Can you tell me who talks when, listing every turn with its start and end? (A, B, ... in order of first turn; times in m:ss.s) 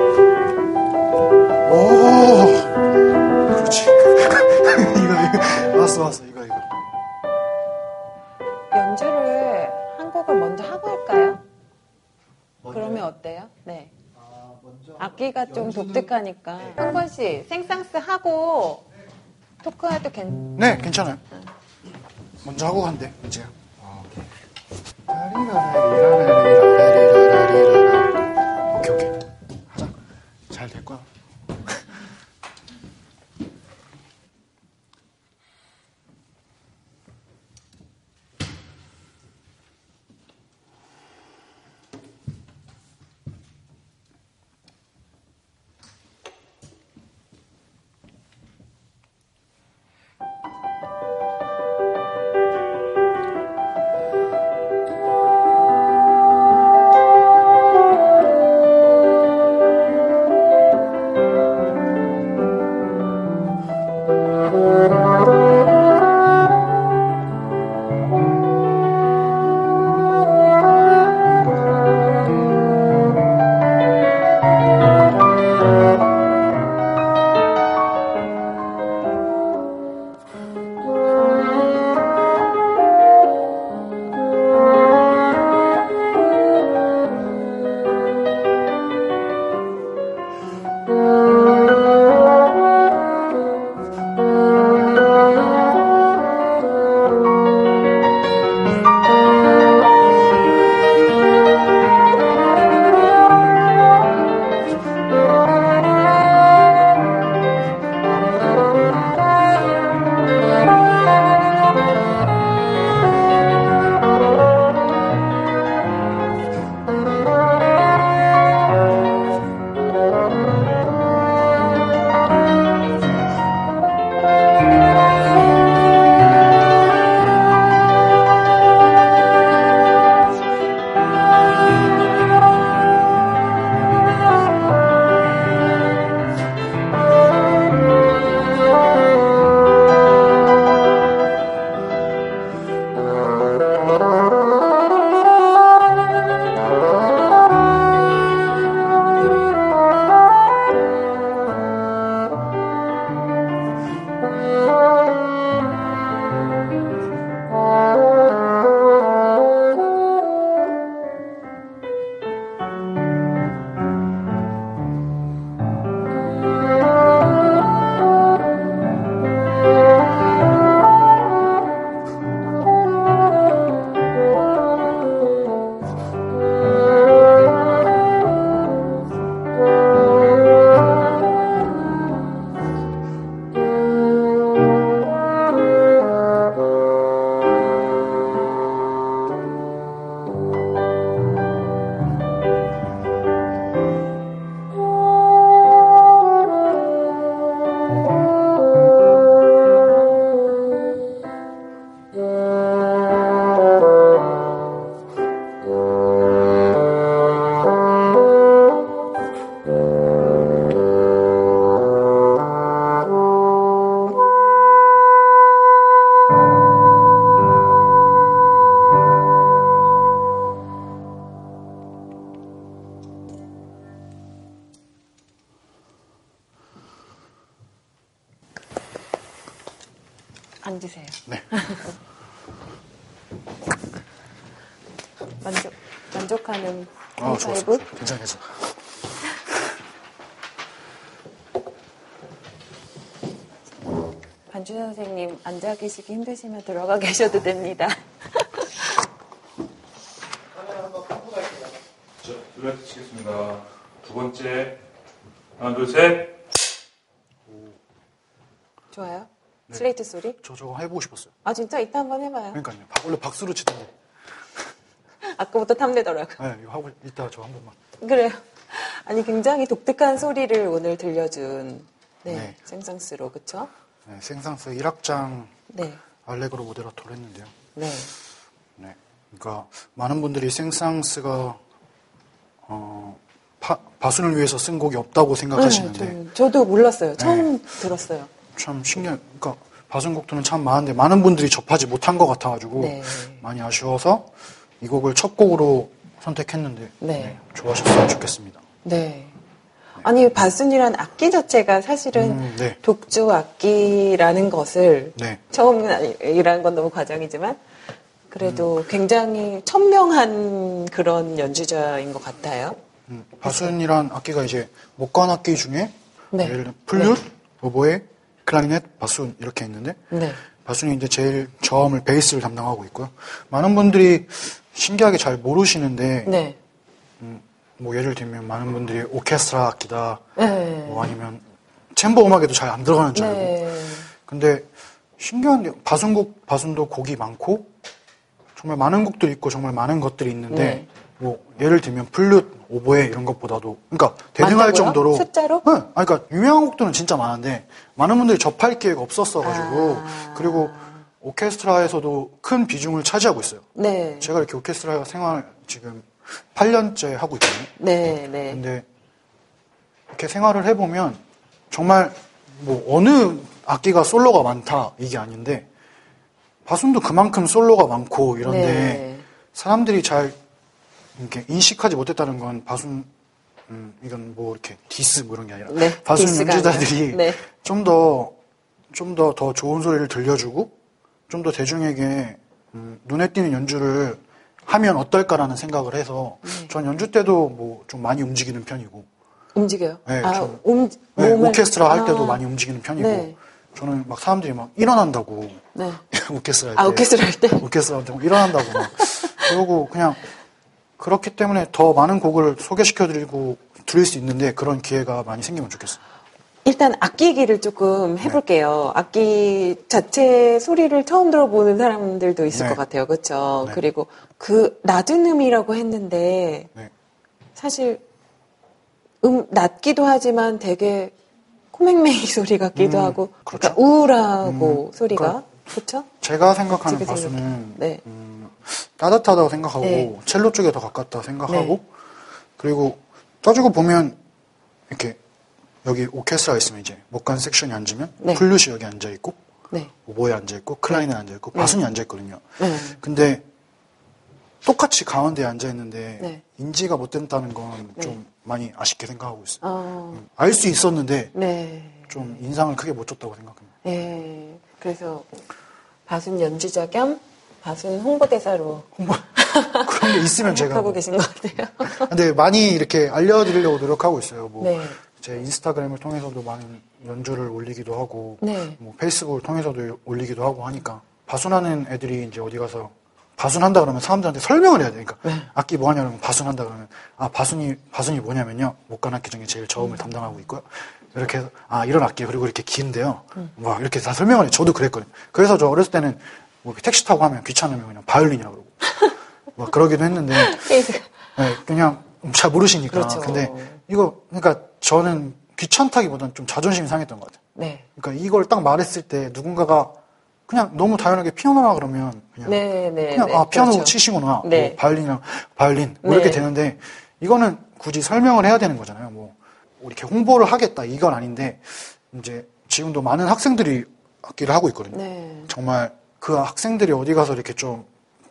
0:01.7-0:02.7 A
0:03.5-0:06.7 A
0:08.7-0:11.4 B
0:12.7-0:13.9 B
0:15.0-0:18.9 B
0:19.6-0:20.6 B
0:20.6-0:21.2 A
0:22.4-0:24.1 A
0:25.1-0:29.1 A
0:30.5-0:31.1 A
3:50.6-3:51.9 B
3:55.4-3:57.8 B
3:57.2-3:58.7 A
4:04.5-4:08.9 B
4:10.7-4:11.5 C
4:12.2-4:14.8 C
4:15.6-4:16.4 C
4:17.5-4:17.8 A
4:18.9-4:20.4 B
4:20.4-4:21.3 A
4:21.4-4:22.6 B
4:22.5-4:23.9 A
4:25.2-4:26.4 B
4:26.4-4:27.8 A
4:28.0-4:33.7 B
4:32.3-4:32.6 A
4:34.1-4:35.5 A
4:35.7-4:36.0 B
4:36.2-4:37.6 A
4:37.8-4:38.1 B
4:38.8-4:41.6 A
4:42.7-4:46.2 A
4:45.6-4:48.3 B
4:47.2-4:47.5 A
4:48.6-4:54.3 A
4:52.8-4:53.4 B
4:54.8-4:58.6 A
4:57.0-4:57.4 B
4:58.8-4:59.3 B
5:00.0-5:07.6 B
5:02.1-5:02.8 A
5:08.3-5:12.8 B
5:08.4-5:08.7 A
5:13.1-5:20.0 A
5:13.4-5:13.7 B
5:16.3-5:17.2 B
5:20.1-5:20.4 B
5:20.6-5:26.4 A
5:26.3-5:26.6 B
5:27.2-5:30.2 A
5:30.4-5:31.1 B
5:30.8-5:31.4 A
5:32.0-5:33.6 A
5:33.2-5:34.1 B
5:34.2-5:34.7 A
5:35.2-5:37.7 A
5:38.6-5:53.6 A
5:40.5-5:40.9 B
5:44.4-5:45.6 B
5:49.4-5:51.0 B
5:53.8-5:54.3 B
5:54.2-5:57.7 A
5:57.8-5:58.6 B
5:58.5-5:58.8 A
6:00.1-6:05.7 A
6:06.7-6:10.4 A
6:08.4-6:09.2 B
6:11.2-6:13.1 A
6:13.7-6:18.3 A
6:15.7-6:17.4 B
6:18.9-6:20.7 A
6:21.3-6:29.1 A
6:26.4-6:26.7 B
6:29.6-6:32.4 B
6:30.1-6:30.6 A
6:31.2-6:40.2 A
6:33.0-6:33.4 B
6:35.8-6:36.0 B
6:36.8-6:37.7 B
6:38.4-6:39.5 B
6:41.0-6:46.0 A
6:46.6-6:56.7 B
6:52.5-6:52.8 A
6:57.6-6:58.0 B
6:59.2-7:01.1 B
7:01.7-7:06.1 B
7:02.8-7:03.8 A
7:04.4-7:05.4 A
7:06.2-7:11.9 A
7:06.7-7:08.0 B
7:09.8-7:10.1 B
7:11.5-7:11.8 B
7:12.6-7:14.2 A
7:14.9-7:15.2 A
7:15.8-7:19.4 A
7:20.0-7:23.4 A
7:20.9-7:21.8 B
7:22.6-7:23.0 B
7:24.6-7:29.6 A
7:29.6-7:30.2 B
7:30.2-7:31.3 A
7:31.3-7:32.4 B
7:32.1-7:33.7 A
7:33.8-7:35.3 B
7:36.1-7:42.1 B
7:39.0-7:41.0 A
7:41.8-8:08.9 A
7:44.6-7:45.0 B
7:48.4-7:48.8 B
7:59.8-8:00.1 B
8:09.6-8:10.7 A
8:10.3-8:11.1 B
8:11.4-8:17.4 A
8:12.9-8:13.8 B
8:17.6-8:17.8 B
8:18.0-8:19.9 A
8:20.5-8:37.9 A
8:22.4-8:24.8 B
8:26.0-8:26.5 B
8:34.9-8:35.5 B